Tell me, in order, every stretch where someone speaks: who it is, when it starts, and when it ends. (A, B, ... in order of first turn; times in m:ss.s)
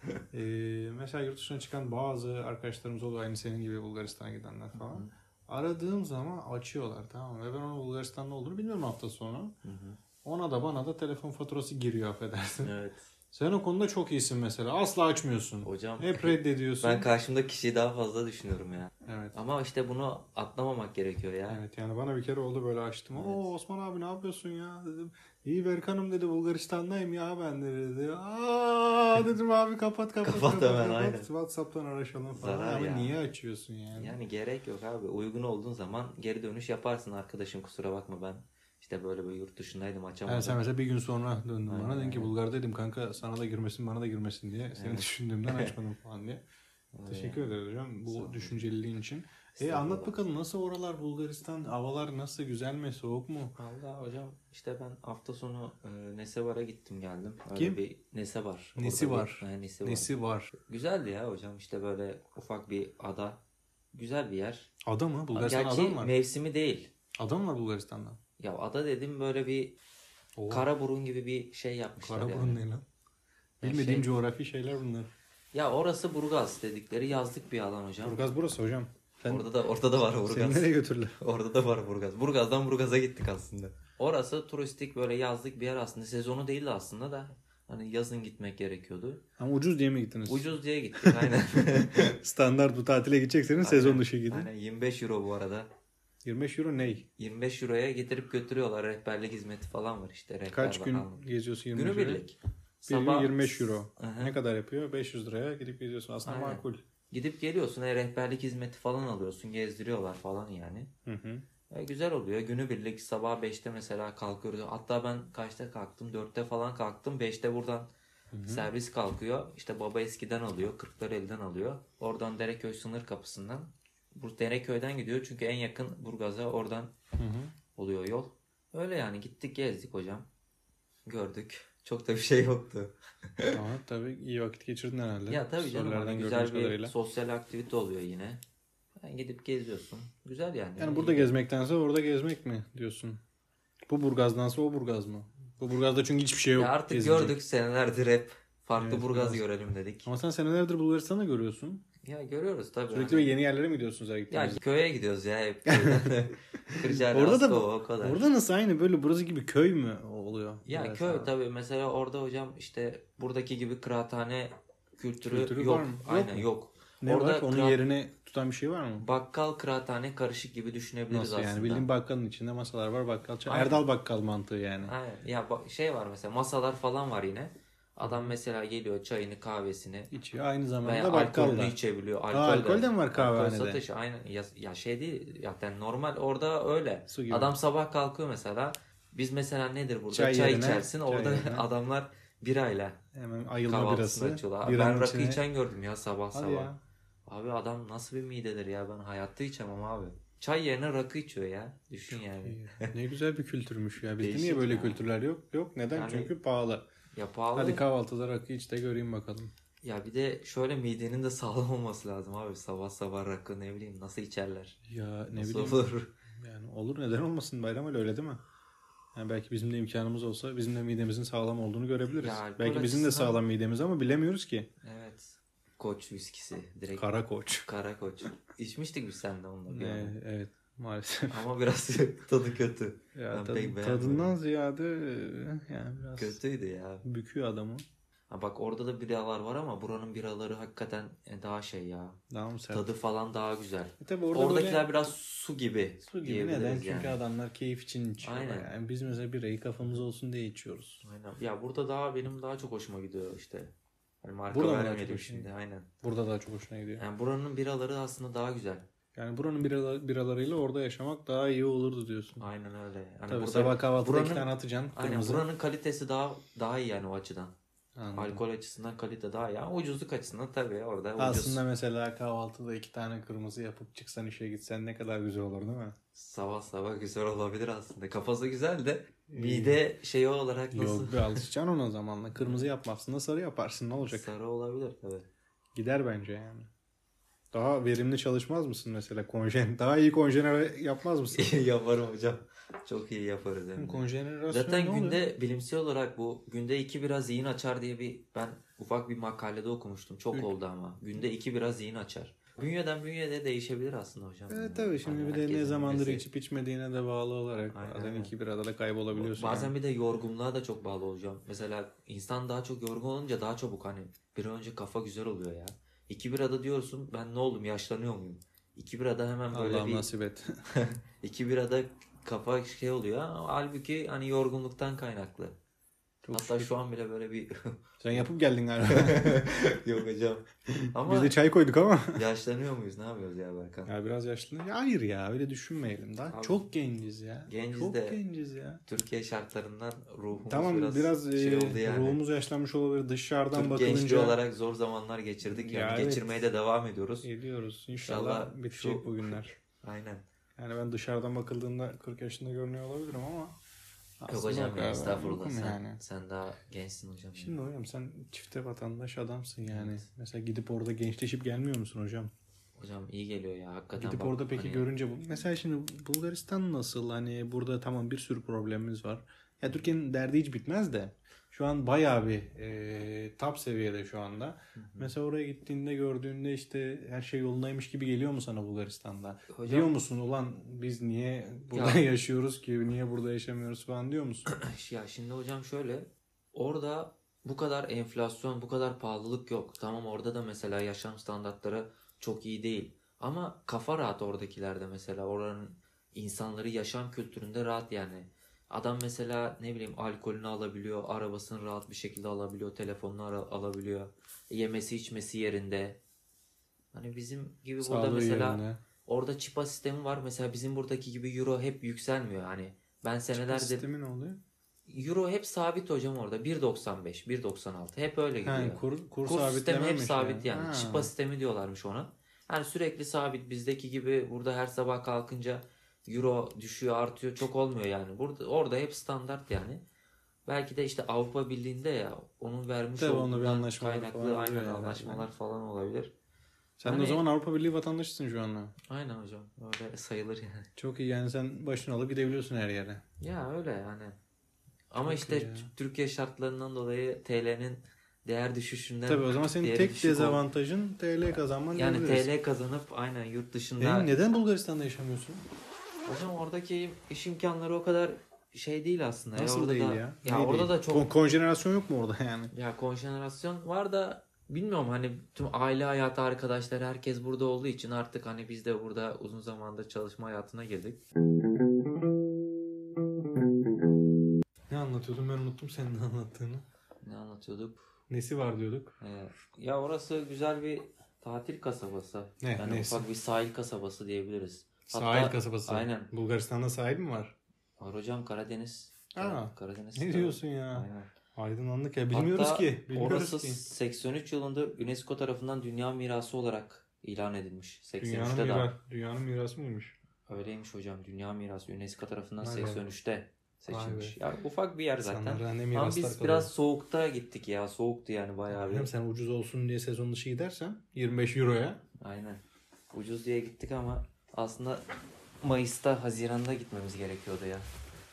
0:00.3-0:09.5 A
0:04.7-0:05.1 B
0:09.6-0:10.0 B
0:10.2-0:12.7 A
0:12.6-0:13.0 B
0:13.3-0:17.1 A
0:15.6-0:21.6 B
0:19.0-0:19.3 A
0:21.5-0:34.2 A
0:23.1-0:23.4 B
0:30.2-0:31.3 B
0:32.3-0:33.1 B
0:33.9-0:40.6 B
0:40.3-0:46.4 A
0:41.7-0:42.3 B
0:44.7-0:45.7 B
0:46.9-0:47.5 B
0:47.1-0:53.6 A
0:48.1-0:48.7 B
0:49.6-0:50.2 B
0:53.6-1:03.4 B
0:57.5-0:57.8 A
0:58.8-1:00.5 A
1:03.9-1:04.7 B
1:04.8-1:06.1 A
1:05.3-1:06.9 B
1:07.2-1:08.2 A
1:08.4-1:09.7 B
1:10.4-1:10.7 A
1:10.5-1:12.6 B
1:12.0-1:12.8 A
1:13.6-1:14.1 B
1:13.6-1:15.1 A
1:15.5-1:18.2 B
1:18.0-1:19.5 A
1:19.2-1:29.2 B
1:20.0-1:21.1 A
1:29.4-1:34.5 A
1:30.2-1:32.2 B
1:33.6-1:35.7 B
1:36.2-1:37.0 A
1:37.1-1:44.4 B
1:40.5-1:42.2 A
1:42.8-1:46.8 A
1:46.2-1:50.9 B
1:51.0-1:51.4 A
1:51.7-1:57.9 B
1:58.3-1:58.7 A
1:58.4-2:06.9 B
2:07.2-2:07.5 A
2:07.7-2:10.2 B
2:11.0-2:13.6 B
2:13.5-2:16.9 A
2:15.3-2:18.4 B
2:19.0-2:21.3 B
2:20.8-2:23.2 A
2:23.9-2:27.4 A
2:26.5-2:30.1 B
2:28.8-2:29.4 A
2:30.0-2:31.8 A
2:32.0-2:33.3 B
2:32.9-2:34.6 A
2:34.3-2:38.3 B
2:35.7-2:36.1 A
2:36.7-2:41.3 A
2:40.6-2:47.8 B
2:45.2-2:46.5 A
2:47.0-2:49.0 A
2:49.0-2:51.9 B
2:51.1-2:54.9 A
2:53.4-2:53.8 B
2:54.8-3:00.1 B
2:58.0-2:58.4 A
3:00.1-3:01.8 A
3:00.8-3:13.0 B
3:02.3-3:03.8 A
3:07.1-3:07.5 A
3:10.1-3:11.7 A
3:13.1-3:15.4 A
3:13.6-3:16.7 B
3:16.3-3:16.8 A
3:17.2-3:22.9 B
3:22.1-3:26.8 A
3:24.2-3:25.0 B
3:25.9-3:26.3 B
3:27.1-3:27.8 B
3:27.5-3:29.5 A
3:29.8-3:34.8 B
3:34.9-3:38.4 A
3:35.3-3:36.1 B
3:39.1-3:44.7 A
3:42.1-3:43.4 B
3:44.8-3:47.1 B
3:46.9-3:47.7 A
3:47.6-3:50.1 B
3:49.7-3:51.4 A
3:51.3-3:54.3 B
3:53.1-3:56.4 A
3:56.2-3:57.0 B
3:57.0-3:57.8 A
3:58.3-4:02.2 B
4:02.3-4:02.8 A
4:02.7-4:07.2 B
4:04.0-4:04.9 A
4:06.0-4:11.0 A
4:08.2-4:08.7 B
4:11.0-4:15.9 B
4:14.5-4:15.5 A
4:16.0-4:17.0 A
4:17.0-4:18.8 B
4:19.1-4:22.4 A
4:22.4-4:27.5 B
4:23.3-4:25.5 A
4:28.0-4:28.4 A
4:28.1-4:31.6 B
4:31.2-4:35.9 A
4:36.1-4:41.4 B
4:39.3-4:39.8 A
4:40.7-4:44.3 A
4:42.4-4:42.7 B
4:44.0-4:45.3 B
4:45.7-4:46.7 A
4:47.5-4:51.5 A
4:51.3-5:06.2 B
4:53.8-4:55.2 A
5:04.5-5:09.7 A
5:07.6-5:08.3 B
5:09.1-5:20.1 B
5:19.5-5:20.6 A
5:20.7-5:25.5 B
5:26.2-5:26.7 A
5:26.3-5:28.2 B
5:28.0-5:29.4 A
5:28.9-5:31.4 B
5:30.8-5:32.2 A
5:32.1-5:33.9 B
5:33.9-5:38.8 A
5:36.3-5:36.6 B
5:37.5-5:38.2 B
5:38.8-5:42.2 B
5:40.4-5:44.4 A
5:43.5-5:47.3 B
5:45.4-5:46.4 A
5:47.2-5:49.5 A
5:48.0-5:50.2 B
5:50.6-5:53.5 A
5:54.2-5:56.0 A
5:54.3-5:57.6 B
5:57.4-6:02.3 A
5:59.6-6:00.0 B
6:02.8-6:04.9 B
6:04.0-6:24.4 A
6:14.8-6:15.1 B
6:19.5-6:19.9 B
6:21.7-6:22.0 B
6:24.5-6:46.0 B
6:46.9-6:53.9 B
6:47.8-6:48.8 A
6:53.3-6:54.4 A
6:54.9-7:09.8 B
6:58.4-7:01.1 A
7:10.4-7:16.1 B
7:13.0-7:15.3 A
7:16.8-7:18.7 A
7:16.8-7:17.2 B
7:18.9-7:20.7 B
7:20.8-7:23.0 A
7:23.2-7:24.2 B
7:24.9-7:30.4 B
7:25.0-7:25.7 A
7:29.1-7:32.3 A
7:31.2-7:34.1 B
7:33.8-7:35.4 A
7:36.0-7:41.1 B
7:39.3-7:42.5 A
7:42.5-7:51.0 B
7:54.7-7:56.6 A
7:57.0-7:57.8 B
7:58.1-7:58.9 A
7:59.0-8:06.1 B
8:02.4-8:03.1 A
8:04.9-8:07.3 A
8:07.8-8:11.1 B
8:09.1-8:13.6 A
8:12.1-8:18.7 B
8:18.0-8:20.0 A
8:20.3-8:28.9 B
8:22.4-8:22.8 A
8:23.7-8:24.2 A
8:25.0-8:26.5 A
8:28.5-8:31.8 A
8:32.0-8:32.4 B
8:32.9-8:34.8 B
8:35.4-8:37.7 B